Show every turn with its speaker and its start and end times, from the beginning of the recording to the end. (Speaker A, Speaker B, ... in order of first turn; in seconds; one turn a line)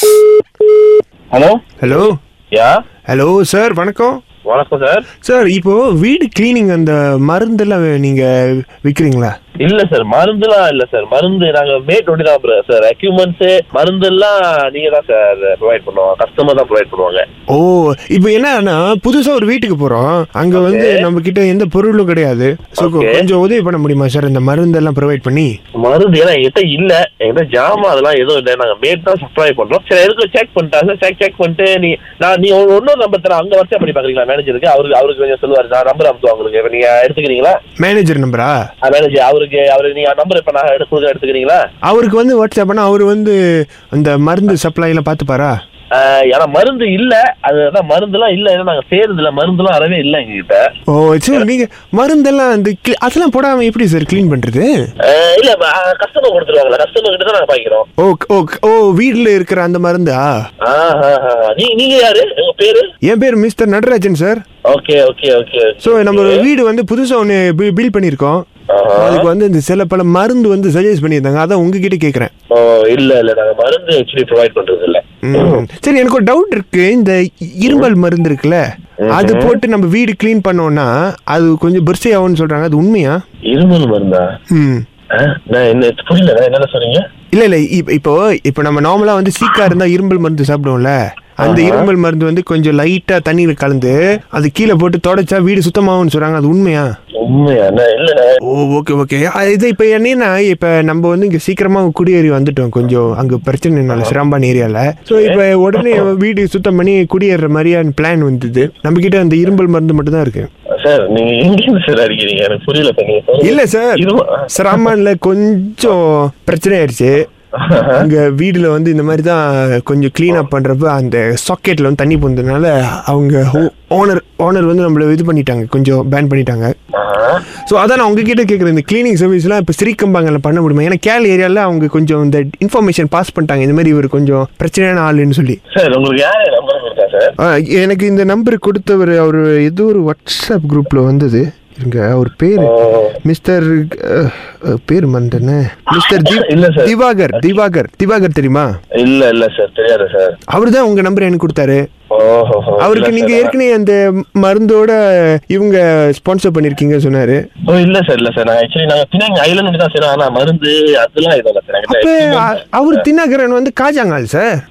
Speaker A: 1.3-2.8
Speaker B: 1.8-2.2
Speaker B: 3.1-4.2
Speaker A: 4.5-5.1
Speaker B: 5.2-9.3
Speaker A: 9.6-17.2
Speaker B: 17.5-25.5
Speaker A: 20.5-21.1
Speaker A: 22.8-23.2
Speaker A: 25.8-37.6
Speaker B: 37.8-38.5
Speaker A: 38.8-41.6
Speaker B: 41.8-45.5
Speaker A: 45.9-50.7
Speaker B: 50.9-54.7
Speaker A: 55.0-57.9
Speaker B: 58.0-60.3
Speaker A: 60.6-62.8
Speaker B: 63.0-64.4
Speaker A: 64.7-66.5
Speaker B: 65.8-68.4
Speaker A: 68.7-69.3
Speaker B: 68.9-72.3
Speaker A: 72.5-75.6
Speaker B: 75.2-83.2
Speaker A: 79.0-79.6
Speaker A: 83.5-84.3
Speaker B: 84.5-84.8
Speaker A: 85.1-87.0
Speaker B: 87.3-96.9
Speaker A: 91.4-91.9
Speaker A: 97.2-98.4
Speaker B: 98.5-110.5
Speaker A: 103.9-104.2
Speaker A: 105.1-106.1
Speaker A: 110.7-114.9
Speaker B: 113.4-117.2
Speaker A: 117.5-118.1
Speaker B: 118.0-126.7
Speaker A: 126.9-127.4
Speaker B: 127.7-135.6
Speaker A: 135.7-137.3
Speaker B: 137.4-148.7
Speaker A: 142.6-143.2
Speaker A: 145.9-147.6
Speaker A: 149.0-150.4
Speaker B: 150.5-151.8
Speaker A: 152.1-153.5
Speaker B: 152.8-157.4
Speaker A: 157.7-163.1
Speaker B: 161.9-164.6